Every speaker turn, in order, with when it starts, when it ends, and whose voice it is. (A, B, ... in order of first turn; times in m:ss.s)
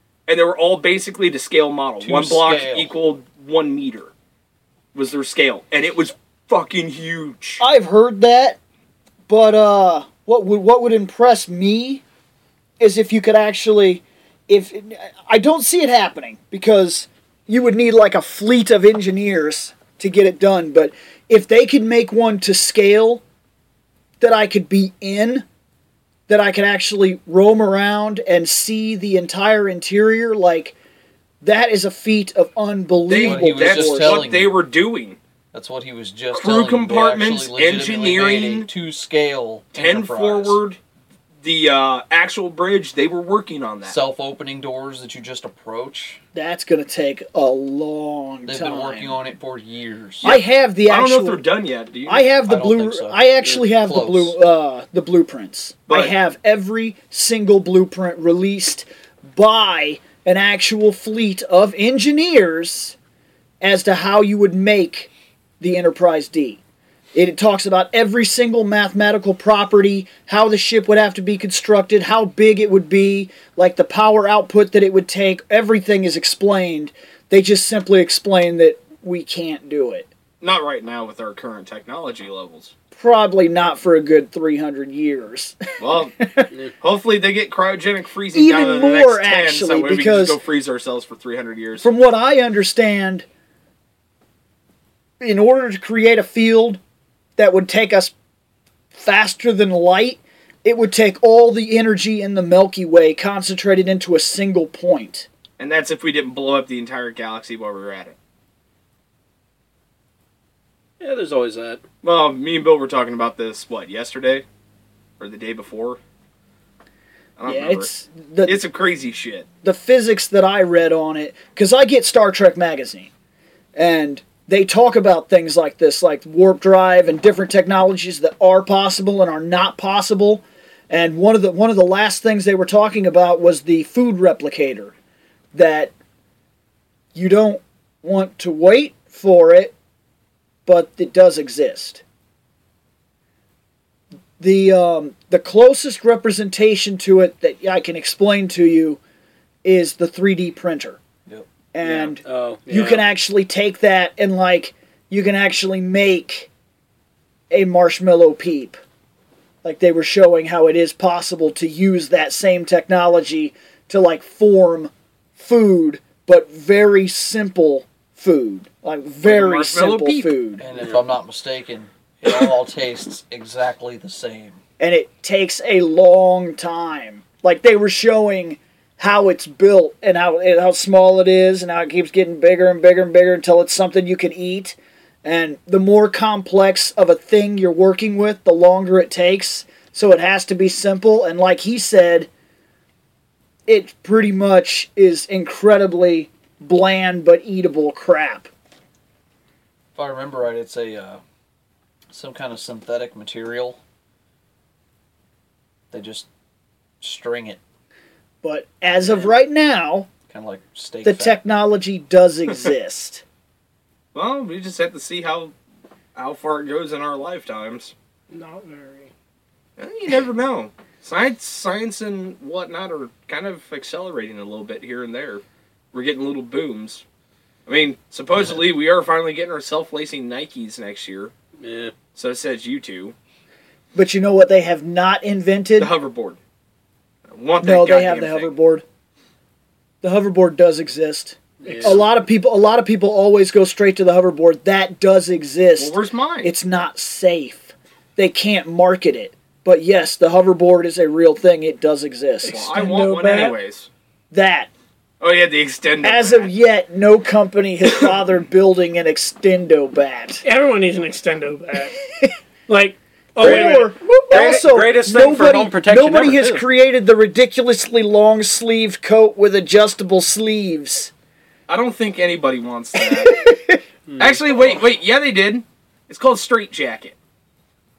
0:00.3-0:04.1 A
0:02.0-0:02.9 B
0:04.9-0:07.6 A
0:07.6-0:08.6 C
0:09.3-0:12.0 C
0:12.8-0:23.2 C
0:24.2-0:25.4 C
0:26.3-0:30.7 C
0:31.4-0:34.2 C
0:33.1-0:35.2 A
0:33.2-0:34.6 B
0:35.5-0:40.6 B
0:36.3-0:38.7 A
0:39.7-0:40.8 A
0:41.4-0:44.0 A
0:43.8-0:46.2 B
0:46.3-0:49.2 C
0:48.4-0:50.3 B
0:50.2-0:52.3 A
0:50.2-0:51.4 C
0:52.0-1:03.0 C
0:52.4-0:54.4 B
0:55.9-0:56.1 A
1:03.6-1:06.6 C
1:07.1-1:20.1 C
1:20.4-1:22.7 A
1:23.0-1:26.5 C
1:25.8-1:31.8 A
1:28.3-1:30.4 C
1:31.8-1:33.2 C
1:35.2-1:36.8 C
1:37.4-1:38.1 C
1:38.9-1:45.3 C
1:45.6-1:48.1 A
1:51.0-1:51.8 D
1:52.0-1:54.4 A
1:55.2-1:56.0 A
1:57.4-1:57.9 A
1:57.4-1:58.6 C
1:58.4-1:59.4 A
1:59.6-2:03.1 C
2:03.8-2:14.9 C
2:15.5-2:15.9 C
2:17.1-2:19.7 C
2:20.6-2:22.0 C
2:24.4-2:29.0 C
2:29.6-2:31.0 C
2:31.7-2:36.5 C
2:31.8-2:33.0 D
2:37.5-2:38.8 C
2:39.6-2:50.6 C
2:49.2-2:50.3 A
2:50.6-2:54.6 B
2:54.8-3:12.3 C
3:13.7-3:18.5 C
3:19.9-3:21.2 B
3:22.1-3:23.8 B
3:25.9-3:26.3 B
3:27.0-3:27.6 B
3:28.4-3:30.1 C
3:30.3-3:31.4 B
3:31.0-3:33.2 C
3:34.1-3:35.5 A
3:36.2-3:37.9 A
3:38.3-3:39.1 E
3:39.8-3:47.0 A
3:47.6-3:51.3 A
3:51.6-3:51.9 D
3:52.1-3:53.1 A
3:53.9-3:55.9 C
3:55.8-3:56.4 A
3:57.3-3:58.5 A
3:57.6-3:58.8 C
4:00.0-4:12.7 C
4:01.6-4:02.0 D
4:01.6-4:02.0 E
4:05.8-4:06.5 A
4:12.4-4:13.6 E
4:12.5-4:13.9 A
4:14.3-4:14.7 C
4:15.2-4:16.5 A
4:16.0-4:20.4 C
4:20.4-4:21.9 E
4:22.7-4:23.9 E
4:23.4-4:31.1 C
4:23.4-4:26.6 D
4:31.7-4:33.4 A
4:33.1-4:33.8 C
4:34.1-4:34.4 D
4:34.2-4:37.1 A